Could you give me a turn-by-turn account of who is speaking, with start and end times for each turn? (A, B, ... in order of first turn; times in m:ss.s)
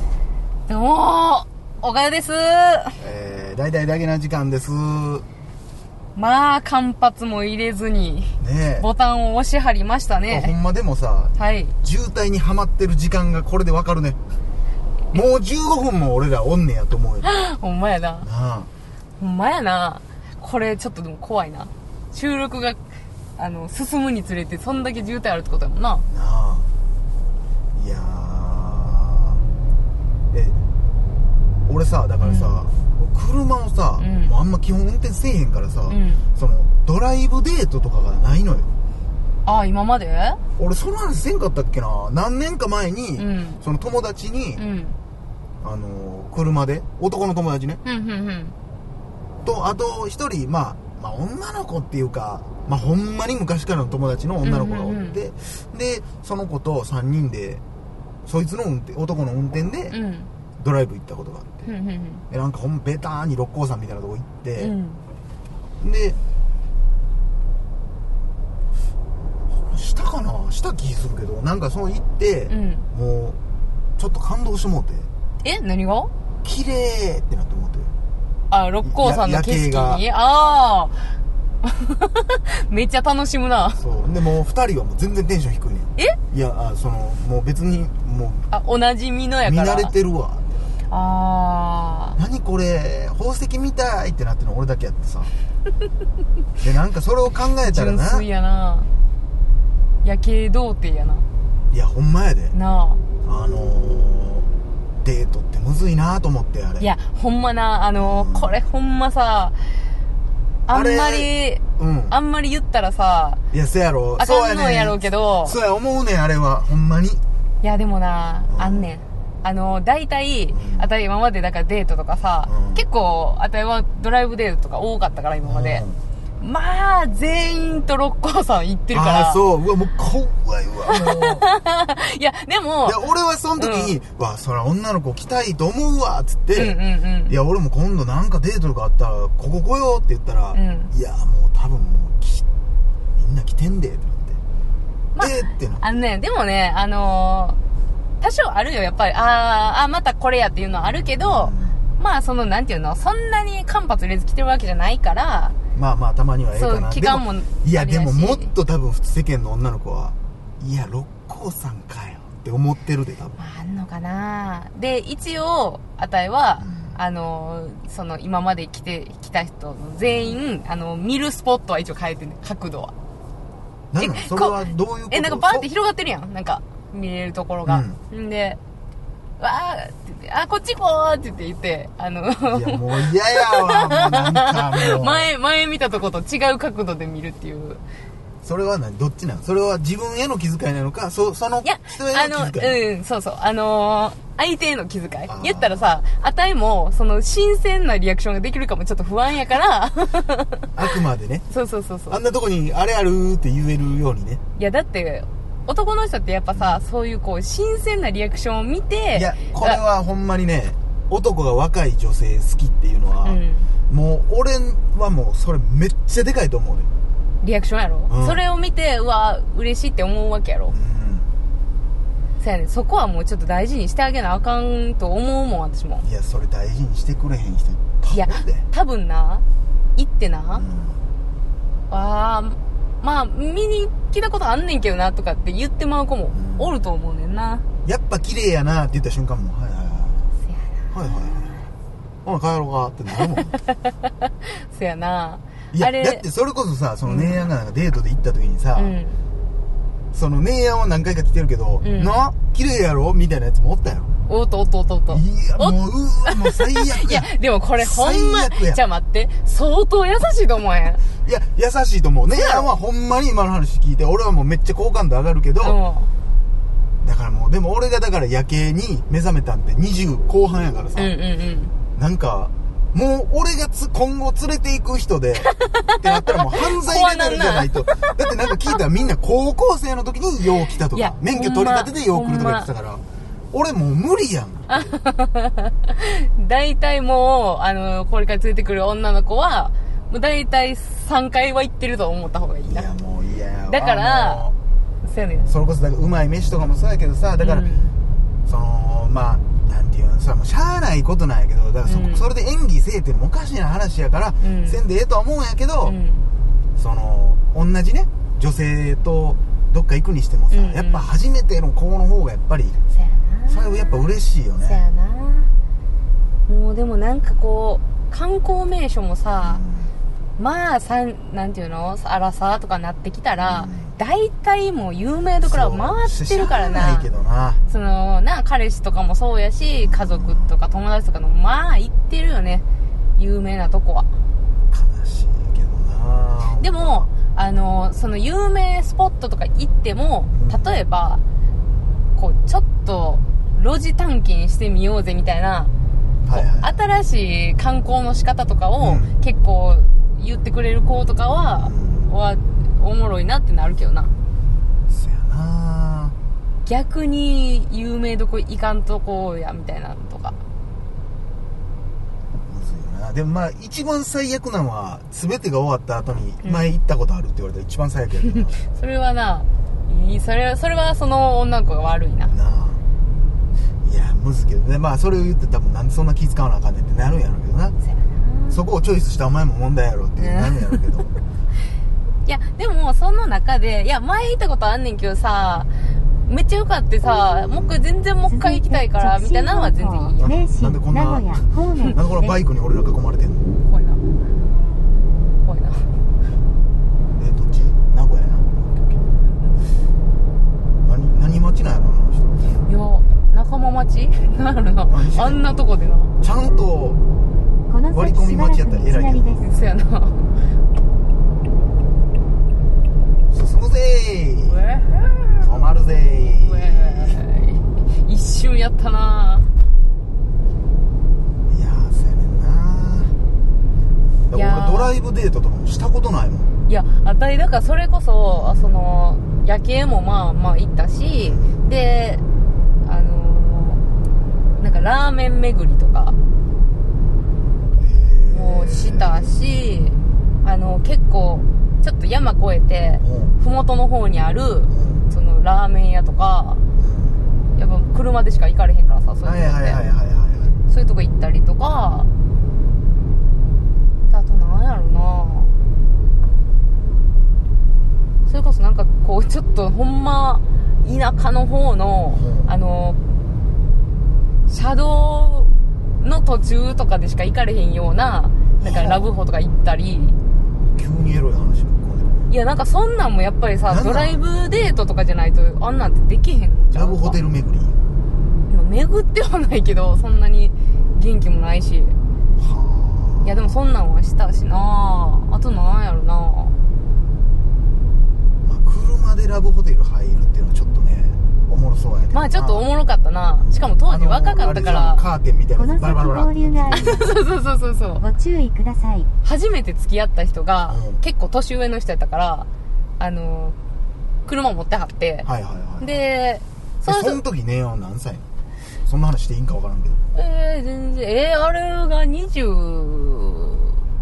0:00.7-0:03.0 A
0:03.0-0:05.2 B
0:06.1-0:10.5 A
0:08.4-0:08.9 B
0:10.3-0:14.2 B
0:11.4-0:11.7 A
0:15.1-0:17.3 B
0:17.2-0:18.2 A
0:18.2-0:18.7 B
0:19.2-0:22.8 A
0:23.4-0:26.0 A
0:26.1-0:26.7 B
0:27.7-0:29.4 B
0:30.3-0:30.6 B
0:31.7-0:38.7 B
0:32.2-0:32.6 A
0:34.0-0:34.3 A
0:35.9-0:36.2 A
0:39.4-0:40.4 A
0:40.6-0:44.6 B
0:43.2-0:43.6 A
0:44.6-0:45.0 A
0:45.6-0:47.8 B
0:47.8-0:48.5 A
0:49.4-0:57.6 B
0:54.4-0:55.2 A
0:58.2-1:00.0 B
0:59.9-1:00.3 A
1:00.6-1:01.7 B
1:01.6-1:02.2 A
1:02.3-1:04.7 B
1:04.6-1:05.0 A
1:05.8-1:06.2 B
1:09.5-1:13.4 B
1:12.5-1:12.8 A
1:14.0-1:15.1 B
1:15.4-1:16.1 A
1:16.4-1:17.9 B
1:18.5-1:23.8 A
1:18.8-1:20.0 B
1:23.8-1:28.5 B
1:28.5-1:29.9 A
1:29.4-1:30.8 B
1:30.9-1:32.2 A
1:32.2-1:35.3 B
1:36.6-1:38.2 B
1:37.6-1:38.9 A
1:40.0-1:41.2 A
1:41.7-1:42.5 B
1:42.5-1:43.0 A
1:43.2-1:46.9 B
1:46.8-1:49.6 A
1:48.0-1:48.6 B
1:50.7-1:53.4 A
1:50.7-1:52.2 B
1:53.5-1:57.2 B
1:54.2-1:55.6 A
1:57.6-2:05.8 A
1:58.5-1:58.9 B
2:00.5-2:00.9 B
2:02.4-2:02.8 B
2:05.4-2:06.0 B
2:06.4-2:09.4 A
2:08.9-2:11.5 B
2:10.9-2:13.0 A
2:12.8-2:22.4 B
2:13.6-2:14.0 A
2:16.5-2:17.4 A
2:20.5-2:20.9 A
2:23.2-2:24.4 B
2:25.1-2:27.6 A
2:25.2-2:25.8 B
2:28.2-2:35.5 A
2:31.2-2:31.8 B
2:35.7-2:43.4 B
2:36.5-2:38.5 A
2:43.4-2:52.9 A
2:46.6-2:47.0 B
2:50.0-2:50.4 B
2:53.9-2:55.7 B
2:54.0-2:58.6 A
2:57.6-2:58.0 B
2:59.4-3:07.8 A
3:02.5-3:05.3 B
3:08.4-3:12.8 B
3:11.6-3:20.7 A
3:15.3-3:16.0 B
3:20.7-3:21.5 B
3:21.5-3:22.2 A
3:22.1-3:24.4 B
3:24.5-3:29.8 A
3:26.5-3:26.8 B
3:29.1-3:36.9 B
3:33.2-3:33.7 A
3:37.4-3:40.7 A
3:38.1-3:38.4 B
3:40.7-3:41.3 B
3:42.4-3:46.0 A
3:46.0-3:48.7 B
3:48.1-3:49.4 A
3:50.0-3:50.6 A
3:50.5-3:51.0 B
3:51.9-3:57.6 A
3:56.3-3:56.7 B
3:57.8-4:00.3 B
4:00.4-4:00.8 A
4:00.9-4:01.7 B
4:02.2-4:03.6 B
4:04.6-4:06.2 A
4:05.7-4:09.0 B
4:07.0-4:07.5 A
4:08.7-4:09.2 A
4:10.1-4:14.1 B
4:11.8-4:12.1 A
4:14.3-4:21.0 A
4:15.1-4:18.8 B
4:21.2-4:25.8 B
4:22.3-4:22.7 A
4:25.6-4:26.1 A
4:27.0-4:31.1 B
4:31.0-4:31.7 A
4:31.9-4:45.0 B
4:35.5-4:38.1 A
4:40.9-4:42.7 A
4:44.7-4:52.9 A
4:52.6-4:54.6 B
4:53.7-4:54.5 A
4:55.0-4:55.5 A
4:55.4-4:57.7 B
4:57.4-4:57.9 A
4:58.4-5:06.0 B
5:01.8-5:02.3 A
5:04.4-5:04.8 A
5:05.8-5:06.2 A
5:06.8-5:12.8 B
5:10.5-5:11.0 A
5:12.9-5:14.0 A
5:13.5-5:14.8 B
5:14.6-5:15.5 A
5:16.5-5:19.6 A
5:19.4-5:19.9 B
5:20.4-5:27.1 A
5:23.4-5:24.0 B
5:25.4-5:27.6 B
5:27.7-5:32.6 A
5:29.8-5:30.5 B
5:33.2-5:34.1 A
5:34.7-5:37.1 B
5:36.6-5:41.2 A
5:40.3-5:40.8 B
5:42.2-5:45.7 A
5:46.2-5:46.8 B
5:46.3-5:54.1 A
5:48.8-5:49.1 B
5:51.6-5:52.1 B
5:54.9-5:56.2 B
5:56.6-6:00.4 A
6:02.4-6:08.6 B
6:08.7-6:12.3 A
6:12.3-6:12.8 B
6:13.8-6:17.8 B
6:17.8-6:18.6 A
6:18.5-6:21.2 B
6:20.2-6:20.8 A
6:22.2-6:25.7 A
6:26.2-6:30.3 A
6:27.5-6:27.8 B
6:28.3-6:32.4 C
6:30.2-6:33.6 B
6:33.6-6:34.0 A
6:35.4-6:35.9 A
6:37.1-6:39.0 B
6:40.8-6:42.6 B
6:42.6-6:46.1 A
6:44.9-6:45.6 B
6:46.2-6:47.0 B
6:47.7-6:49.5 C
6:47.9-6:49.7 B
6:49.4-6:50.3 A
6:53.3-6:54.6 B
6:54.5-6:59.5 A
6:55.4-6:57.2 B
7:01.5-7:03.2 B
7:04.3-7:06.5 B
7:04.3-7:05.0 A
7:06.7-7:12.2 A
7:08.3-7:08.6 B
7:11.2-7:11.6 B
7:12.8-7:13.8 A
7:14.6-7:16.2 A
7:17.7-7:19.4 B
7:18.3-7:26.6 A
7:23.0-7:23.4 B
7:24.7-7:25.1 B
7:26.8-7:27.2 B
7:27.5-7:29.8 A
7:29.2-7:30.6 B
7:30.7-7:32.1 A
7:34.1-7:35.5 A
7:38.2-7:43.0 A
7:42.1-7:42.5 B
7:44.5-7:50.2 A
7:48.6-7:49.1 B
7:50.6-7:52.3 B
7:52.3-7:57.2 A
7:53.7-7:54.2 B
7:56.7-7:57.8 B
7:58.5-8:02.0 A
8:02.4-8:03.6 B
8:03.2-8:06.6 A
8:08.4-8:12.6 B
8:12.1-8:15.0 A
8:13.4-8:17.1 B
8:15.6-8:17.3 C
8:16.7-8:18.0 A
8:18.0-8:19.1 C
8:19.2-8:22.5 A
8:20.7-8:21.0 B
8:23.0-8:23.6 A
8:24.2-8:25.3 A
8:25.2-8:26.0 B
8:25.8-8:27.2 A
8:26.8-8:28.2 B
8:28.8-8:30.0 B
8:30.1-8:33.8 A